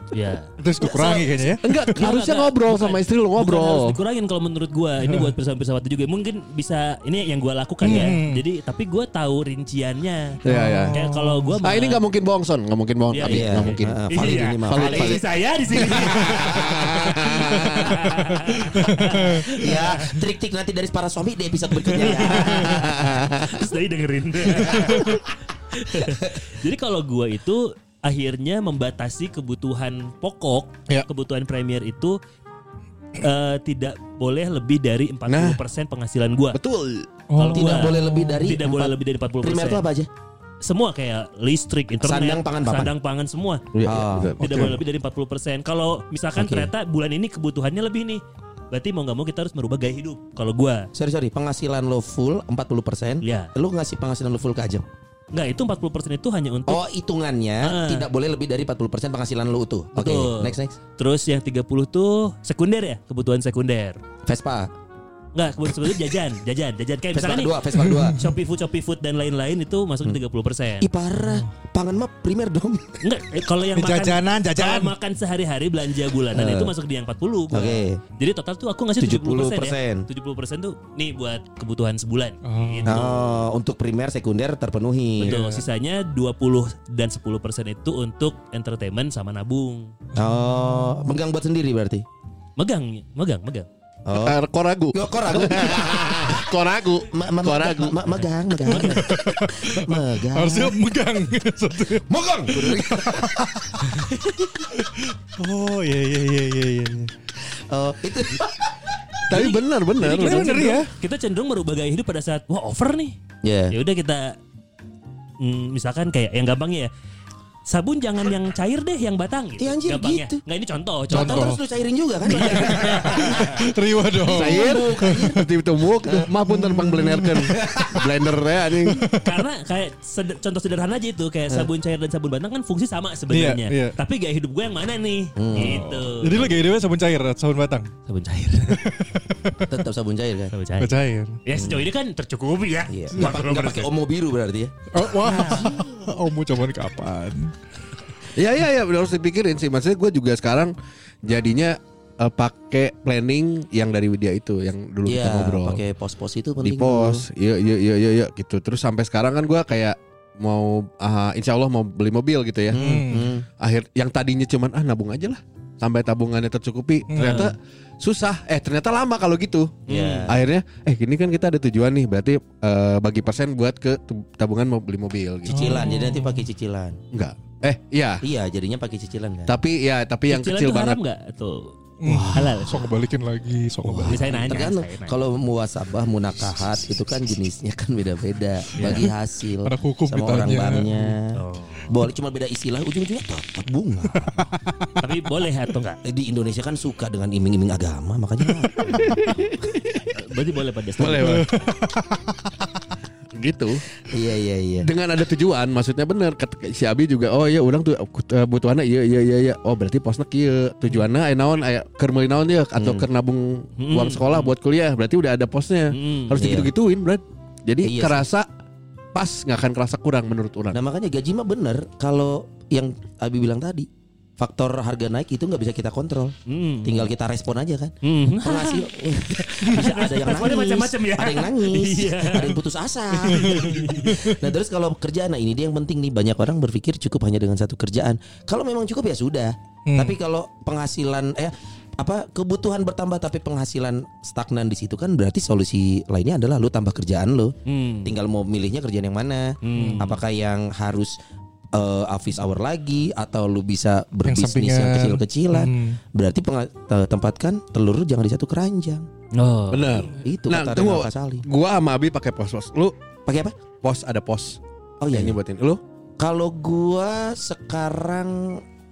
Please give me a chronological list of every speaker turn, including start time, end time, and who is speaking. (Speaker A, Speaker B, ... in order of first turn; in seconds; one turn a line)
Speaker A: 0.1-0.5
Speaker B: 0.6-1.8
Speaker C: 0.8-1.5
Speaker D: 1.6-4.0
Speaker A: 1.9-12.0
Speaker B: 5.0-5.3
Speaker B: 7.8-8.4
Speaker D: 10.4-10.9
Speaker B: 10.5-11.6
Speaker D: 11.6-15.2
Speaker A: 13.1-20.2
Speaker C: 13.2-15.2
Speaker D: 15.8-18.1
Speaker C: 15.8-17.3
Speaker B: 18.4-19.5
Speaker C: 19.3-23.3
Speaker A: 22.0-22.7
Speaker B: 22.3-22.7
Speaker D: 22.7-23.5
Speaker A: 23.3-32.2
Speaker B: 24.6-25.2
Speaker C: 24.8-25.1
Speaker A: 33.1-36.6
Speaker D: 35.3-35.6
Speaker D: 36.5-37.1
Speaker B: 37.3-38.5
Speaker A: 37.4-39.8
Speaker C: 37.5-40.1
Speaker A: 40.6-43.7
Speaker C: 42.0-42.9
Speaker D: 43.7-44.8
Speaker C: 43.8-44.4
Speaker A: 44.4-50.9
Speaker B: 44.4-44.7
Speaker C: 46.4-46.7
Speaker C: 50.9-54.8
Speaker A: 53.2-53.5
Speaker A: 55.3-56.8
Speaker C: 56.7-60.8
Speaker A: 57.6-58.1
Speaker A: 60.0-64.0
Speaker C: 64.2-64.7
Speaker A: 65.3-70.9
Speaker C: 67.1-68.2
Speaker B: 67.8-68.3
Speaker C: 70.8-73.0
Speaker B: 71.2-71.5
Speaker A: 73.0-83.4
Speaker B: 73.7-74.9
Speaker C: 76.3-76.7
Speaker C: 77.5-78.0
Speaker C: 79.0-80.1
Speaker B: 82.4-83.0
Speaker C: 82.8-85.4
Speaker A: 85.2-89.9
Speaker B: 85.2-85.6
Speaker C: 90.1-92.0
Speaker B: 90.2-91.0
Speaker A: 92.6-93.7
Speaker C: 94.0-94.4
Speaker D: 94.1-98.1
Speaker C: 94.9-96.5
Speaker C: 97.1-100.8
Speaker B: 98.7-104.1
Speaker C: 102.1-103.4
Speaker B: 104.6-107.1
Speaker C: 107.5-108.7
Speaker D: 109.3-110.7
Speaker A: 109.3-113.2
Speaker B: 110.1-110.9
Speaker C: 113.4-113.7
Speaker A: 113.7-114.4
Speaker A: 115.4-116.9
Speaker A: 117.7-121.5
Speaker C: 119.6-120.4
Speaker B: 121.1-121.6
Speaker C: 121.1-123.6
Speaker A: 122.2-123.5
Speaker B: 122.3-125.3
Speaker D: 124.2-129.1
Speaker C: 124.2-125.5
Speaker B: 126.7-127.4
Speaker C: 127.5-128.0
Speaker B: 128.9-129.3
Speaker A: 129.2-136.6
Speaker B: 133.3-134.0
Speaker C: 135.3-135.9
Speaker B: 135.5-137.9
Speaker A: 138.1-138.9
Speaker B: 138.6-139.8
Speaker C: 139.7-140.5
Speaker A: 140.5-143.9
Speaker B: 140.8-141.4
Speaker C: 141.6-141.8
Speaker C: 142.9-144.7
Speaker B: 144.9-147.5
Speaker D: 148.3-155.8
Speaker C: 155.0-157.2
Speaker D: 156.6-162.9
Speaker C: 162.7-163.4
Speaker B: 162.7-163.3
Speaker D: 163.5-169.8
Speaker B: 167.1-167.5
Speaker A: 167.2-167.5
Speaker A: 169.9-170.3
Speaker C: 169.9-170.4
Speaker D: 170.3-175.8
Speaker B: 175.5-176.5
Speaker C: 175.5-177.0
Speaker D: 177.1-178.2
Speaker C: 178.2-179.5
Speaker D: 179.5-181.0
Speaker A: 180.3-181.7
Speaker B: 182.0-184.6
Speaker C: 182.0-182.5
Speaker A: 182.3-182.9
Speaker C: 183.9-194.4
Speaker A: 184.0-185.2
Speaker A: 188.8-189.0
Speaker B: 188.8-189.1
Speaker B: 189.6-191.1
Speaker A: 191.3-191.9
Speaker B: 194.2-195.0
Speaker A: 195.0-196.0
Speaker C: 196.0-199.4
Speaker B: 198.6-198.9
Speaker A: 198.8-199.1
Speaker D: 199.3-199.7
Speaker A: 200.1-201.5
Speaker D: 201.0-201.5
Speaker B: 201.2-202.5
Speaker D: 203.3-203.8
Speaker C: 204.1-204.9
Speaker D: 204.8-218.5
Speaker C: 212.8-213.1
Speaker A: 213.8-214.5
Speaker A: 215.9-216.4
Speaker C: 216.3-216.7
Speaker C: 217.8-218.2
Speaker D: 219.1-220.8
Speaker C: 220.7-223.9
Speaker C: 224.4-251.1
Speaker A: 226.5-227.1
Speaker A: 228.0-228.9
Speaker A: 229.4-232.6
Speaker B: 233.3-234.4
Speaker A: 233.3-234.3
Speaker B: 239.9-240.2
Speaker A: 247.7-248.1
Speaker A: 249.6-250.2
Speaker B: 249.7-250.1
Speaker C: 251.7-259.1
Speaker B: 254.2-256.0
Speaker A: 259.3-260.1
Speaker D: 259.7-262.9
Speaker C: 260.2-261.4
Speaker C: 263.3-263.5
Speaker D: 263.8-264.6
Speaker C: 265.0-265.4
Speaker D: 265.1-265.8
Speaker C: 266.2-268.6